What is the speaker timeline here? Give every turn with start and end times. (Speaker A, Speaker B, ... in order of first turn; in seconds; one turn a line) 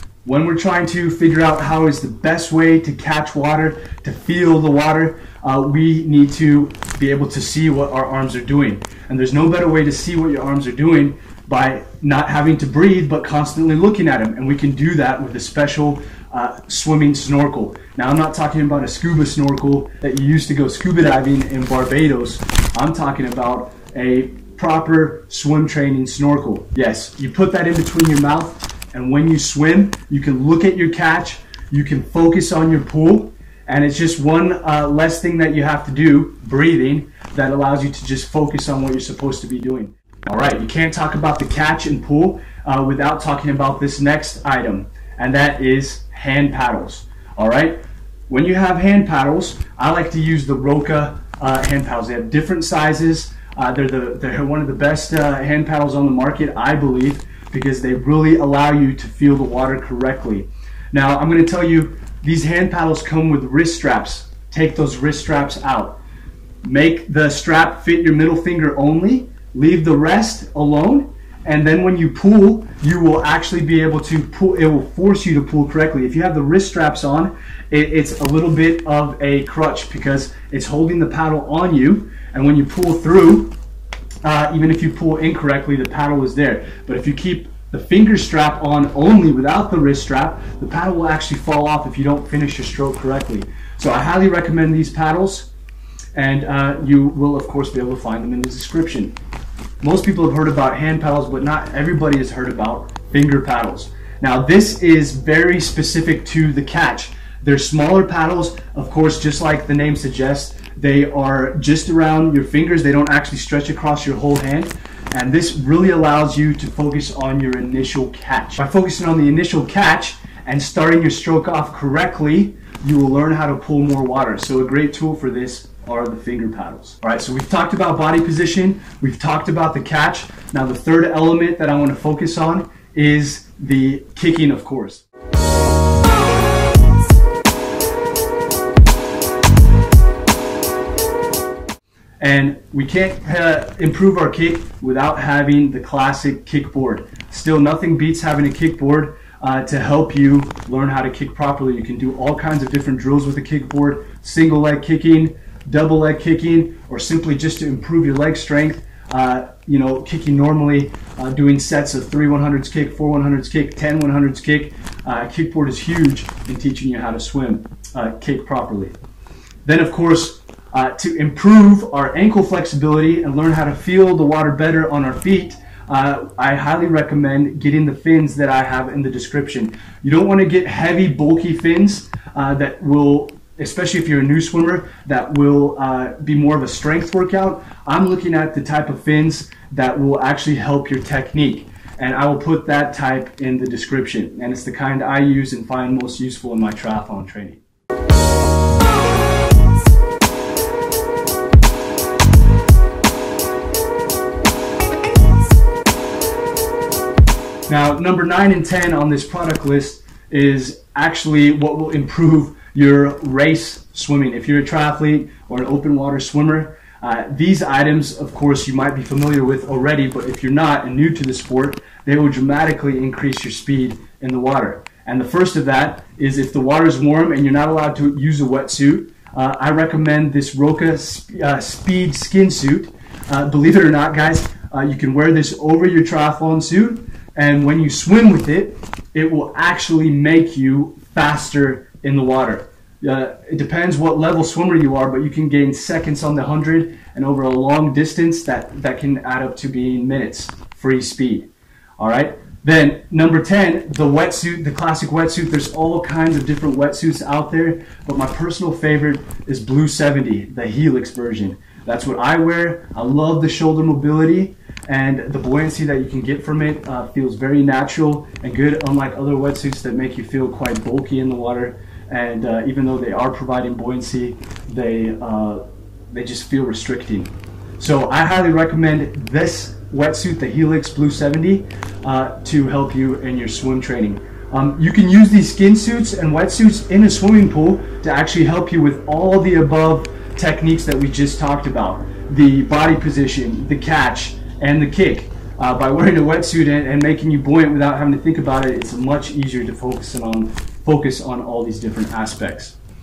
Speaker A: 0.2-66.0
Speaker A: 66.6-83.5
Speaker A: 84.2-95.5
Speaker A: 96.1-99.1
Speaker A: 99.8-135.0
Speaker A: 142.2-168.9
Speaker A: 169.6-197.6
Speaker A: 207.7-302.8